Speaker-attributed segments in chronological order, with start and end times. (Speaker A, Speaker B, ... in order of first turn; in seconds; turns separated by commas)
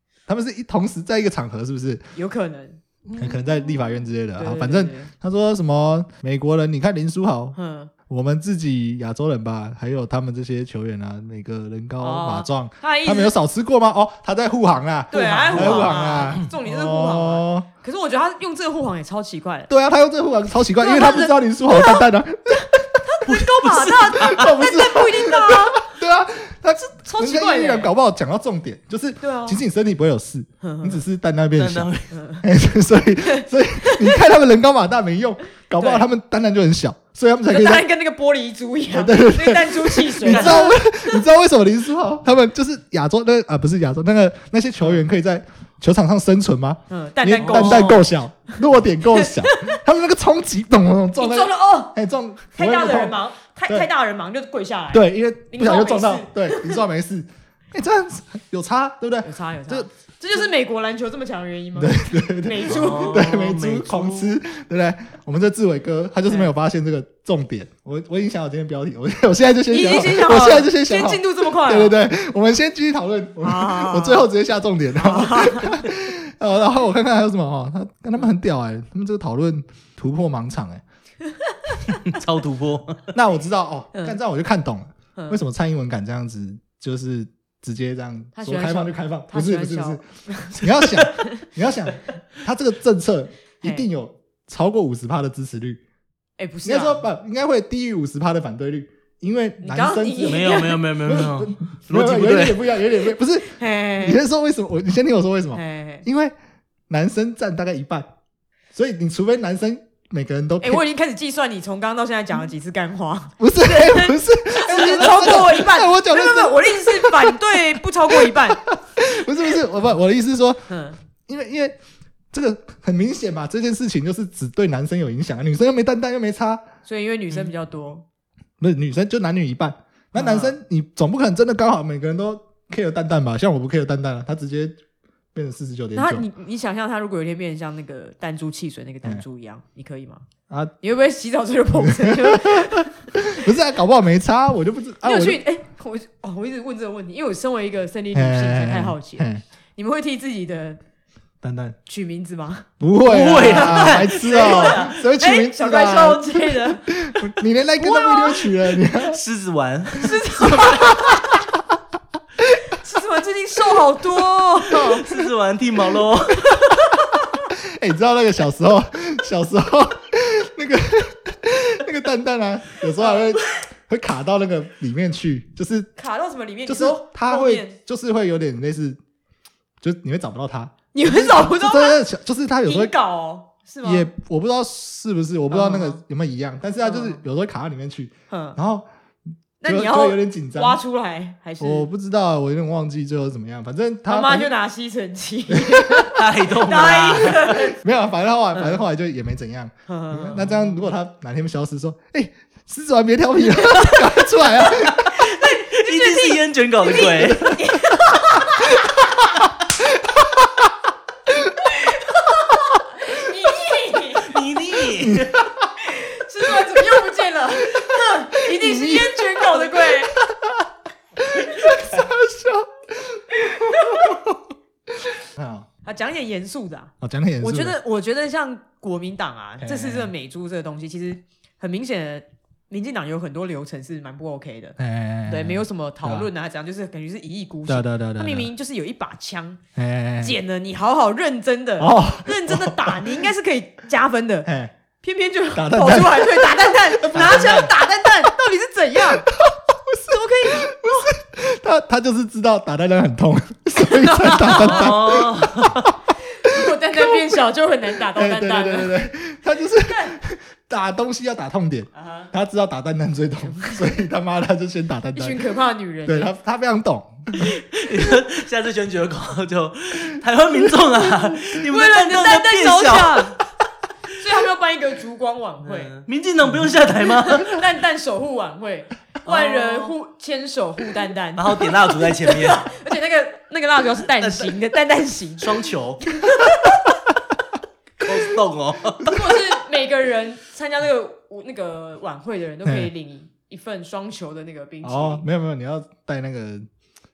Speaker A: 0.3-2.1, Speaker B: 2.1-2.8, Speaker C: 3.1-3.9, Speaker A: 3.1-7.6, Speaker B: 4.4-5.1, Speaker B: 7.5-7.9, Speaker A: 8.1-17.7, Speaker B: 12.0-13.3, Speaker B: 15.1-19.7, Speaker C: 15.5-16.1, Speaker A: 19.7-23.0, Speaker B: 20.8-22.1, Speaker B: 23.0-25.9, Speaker C: 23.2-24.5, Speaker A: 24.1-31.9, Speaker B: 26.9-27.9, Speaker B: 29.2-29.6, Speaker B: 30.6-31.0, Speaker C: 31.5-32.1, Speaker B: 32.1-32.5, Speaker A: 32.4-37.9, Speaker B: 33.2-34.2, Speaker B: 35.8-36.1, Speaker B: 37.5-41.1, Speaker A: 38.9-53.9, Speaker C: 40.2-40.8, Speaker B: 46.9-48.5, Speaker C: 47.4-48.0, Speaker B: 49.1-49.8, Speaker B: 51.1-51.9, Speaker B: 52.5-56.8, Speaker A: 54.9-59.9, Speaker B: 59.2-63.3, Speaker A: 61.7-80.8, Speaker C: 62.7-64.4, Speaker B: 69.7-72.0, Speaker B: 73.4-74.3, Speaker B: 75.0-75.8, Speaker B: 81.2-81.9, Speaker C: 82.0-83.1, Speaker A: 83.1-95.8, Speaker B: 85.2-85.4, Speaker B: 88.3-90.6, Speaker B: 96.4-97.0, Speaker A: 96.6-106.3, Speaker B: 99.6-100.8, Speaker C: 100.2-102.8, Speaker B: 103.4-104.2, Speaker B: 105.5-106.0, Speaker A: 106.9-108.1, Speaker A: 108.7-110.8, Speaker B: 110.6-118.6, Speaker A: 113.4-120.6, Speaker B: 120.7-121.0, Speaker A: 121.3-121.8, Speaker A: 122.3-126.6, Speaker B: 126.8-128.0, Speaker A: 128.6-134.8, Speaker B: 130.1-130.6, Speaker A: 135.3-136.2, Speaker B: 135.9-140.2, Speaker A: 140.5-140.7, Speaker B: 140.8-142.9, Speaker A: 141.7-145.4, Speaker B: 145.0-150.8, Speaker A: 148.1-149.4, Speaker A: 151.4-151.8, Speaker B: 151.8-152.7, Speaker A: 152.8-159.2, Speaker C: 153.1-154.9, Speaker B: 153.3-156.9, Speaker B: 157.8-158.5, Speaker C: 158.9-161.2, Speaker B: 160.0-161.4, Speaker B: 162.7-165.0, Speaker C: 164.7-166.6, Speaker B: 166.5-167.4, Speaker A: 167.5-175.9, Speaker B: 173.0-173.2, Speaker B: 176.0-177.8, Speaker A: 176.7-179.0, Speaker A: 179.8-182.9, Speaker B: 180.9-182.0, Speaker B: 182.6-184.1, Speaker A: 183.8-188.9, Speaker B: 185.5-186.0, Speaker B: 186.8-187.2, Speaker B: 188.3-188.6, Speaker B: 189.6-191.9, Speaker A: 189.6-190.8, Speaker A: 191.6-194.5, Speaker B: 194.1-197.8, Speaker A: 195.5-196.1, Speaker C: 196.1-197.7, Speaker A: 197.7-205.1, Speaker B: 199.9-200.8, Speaker C: 205.0-207.6, Speaker B: 205.1-209.1, Speaker A: 207.3-207.7, Speaker A: 210.2-210.6, Speaker B: 211.6-214.4, Speaker C: 214.2-215.4, Speaker A: 215.0-215.3, Speaker B: 215.8-220.2, Speaker A: 217.6-225.7, Speaker B: 221.5-221.8, Speaker B: 223.5-224.1, Speaker B: 225.8-239.6, Speaker A: 227.0-227.8, Speaker A: 229.6-230.1, Speaker A: 234.8-236.3, Speaker A: 237.7-238.5, Speaker A: 239.8-240.4, Speaker B: 240.2-244.5, Speaker A: 241.8-243.2, Speaker A: 244.4-244.7, Speaker B: 245.0-249.3, Speaker A: 245.5-247.7, Speaker C: 247.2-247.7, Speaker A: 249.3-255.9, Speaker B: 250.0-251.1, Speaker B: 253.8-255.0, Speaker C: 254.6-255.9, Speaker B: 256.4-258.9, Speaker A: 256.4-257.3, Speaker A: 257.9-265.4, Speaker B: 259.8-260.2, Speaker B: 261.9-262.3, Speaker B: 263.4-263.9, Speaker B: 265.1-266.3, Speaker A: 266.1-267.5, Speaker C: 267.4-273.4, Speaker B: 270.9-273.4, Speaker B: 274.1-275.9, Speaker C: 275.6-277.6, Speaker B: 277.1-286.8, Speaker C: 279.2-279.9, Speaker C: 281.4-282.7, Speaker C: 284.2-284.6, Speaker C: 285.4-286.1, Speaker C: 288.0-289.2, Speaker B: 289.0-295.2, Speaker A: 292.6-292.9, Speaker A: 294.8-296.6